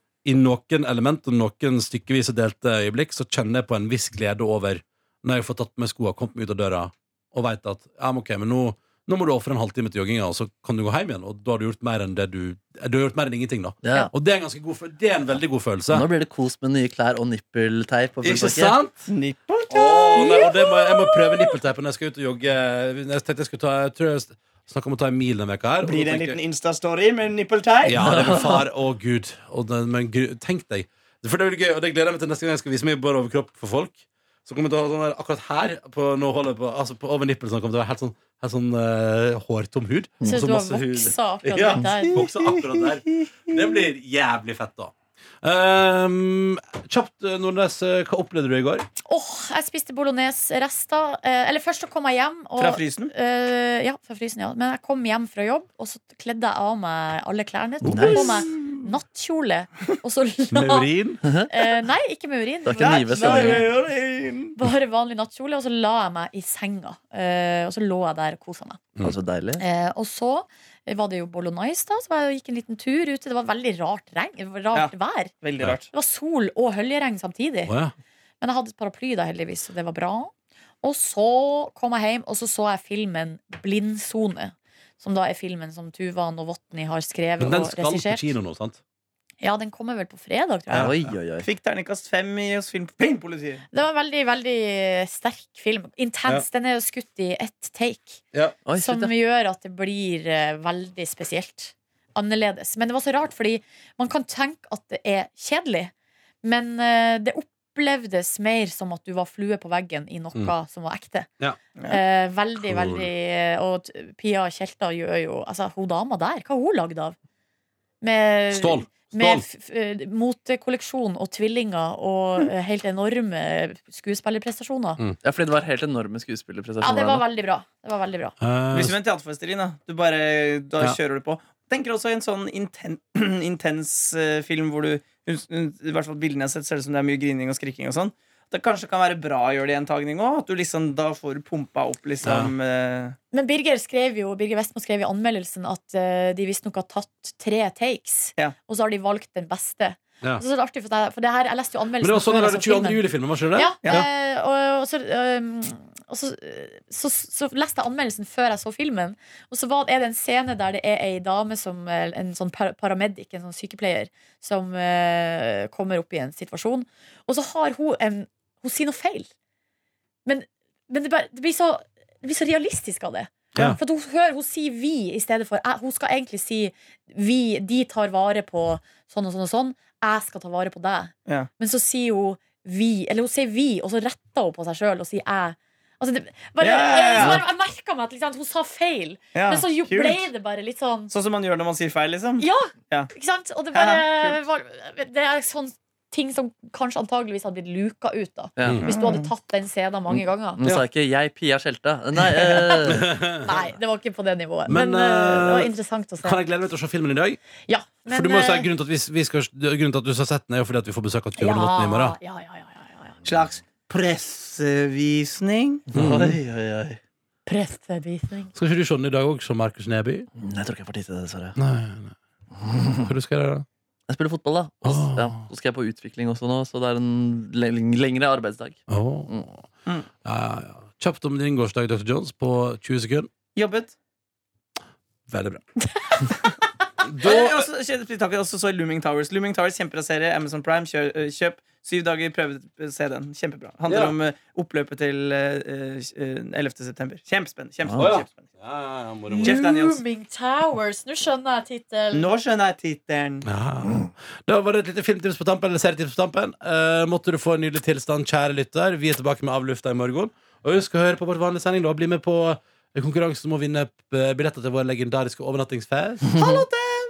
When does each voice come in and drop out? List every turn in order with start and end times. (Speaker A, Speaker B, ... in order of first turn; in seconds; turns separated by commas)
Speaker A: 0.2-16.1, Speaker B: 13.8-14.1, Speaker B: 15.9-18.7, Speaker A: 18.2-19.1, Speaker C: 19.1-20.5, Speaker A: 19.7-26.4, Speaker D: 20.1-21.4, Speaker C: 25.8-28.0, Speaker A: 27.8-48.9, Speaker B: 28.0-28.6, Speaker D: 40.2-42.2, Speaker C: 42.4-42.8, Speaker D: 49.0-60.9, Speaker C: 52.6-53.1, Speaker A: 57.8-58.7, Speaker B: 57.9-58.4, Speaker A: 60.5-61.2, Speaker B: 61.2-61.5, Speaker D: 61.5-63.7, Speaker B: 62.6-63.7, Speaker C: 62.8-64.5, Speaker A: 63.3-64.0, Speaker D: 64.6-68.8, Speaker B: 69.0-69.6, Speaker D: 69.6-75.3, Speaker C: 74.7-75.9, Speaker D: 75.9-77.7, Speaker A: 77.7-77.9, Speaker D: 78.4-88.3, Speaker A: 87.4-88.8, Speaker D: 89.4-90.9, Speaker A: 90.7-91.1, Speaker B: 90.7-91.5, Speaker C: 91.4-93.6, Speaker D: 93.7-105.9, Speaker B: 98.7-99.1, Speaker D: 106.4-111.3, Speaker D: 111.9-117.1, Speaker A: 112.6-113.1, Speaker D: 118.0-125.0, Speaker A: 118.5-119.5, Speaker B: 125.2-127.2, Speaker D: 126.8-128.3, Speaker A: 128.4-128.9, Speaker C: 128.7-143.2, Speaker A: 142.2-142.5, Speaker D: 143.3-169.3, Speaker A: 152.0-154.1, Speaker D: 170.2-191.1, Speaker C: 186.6-187.4, Speaker C: 189.3-190.2, Speaker C: 191.1-193.1, Speaker D: 192.4-200.6, Speaker C: 193.7-194.4, Speaker B: 198.6-198.9, Speaker A: 198.6-198.9, Speaker C: 198.9-199.3, Speaker B: 200.6-203.0, Speaker D: 202.5-206.4, Speaker A: 202.9-203.5, Speaker A: 204.7-207.4, Speaker D: 207.6-208.7, Speaker A: 208.1-212.2, Speaker D: 211.4-213.2, Speaker C: 213.2-215.8, Speaker B: 215.9-217.0, Speaker A: 215.9-216.4, Speaker D: 217.4-218.5, Speaker A: 218.5-220.3, Speaker B: 220.4-221.6, Speaker A: 221.6-222.1, Speaker B: 222.7-222.9, Speaker A: 223.0-223.6, Speaker B: 224.1-229.4, Speaker A: 224.8-225.4, Speaker A: 228.9-229.6, Speaker A: 230.2-233.3, Speaker C: 233.5-233.9, Speaker A: 235.3-235.6, Speaker D: 236.1-236.3, Speaker A: 237.0-237.6, Speaker C: 237.2-248.4, Speaker A: 243.9-244.1, Speaker A: 247.9-249.7, Speaker D: 249.3-252.3, Speaker C: 249.4-250.0, Speaker C: 252.1-253.5, Speaker A: 253.4-266.6, Speaker B: 266.3-266.6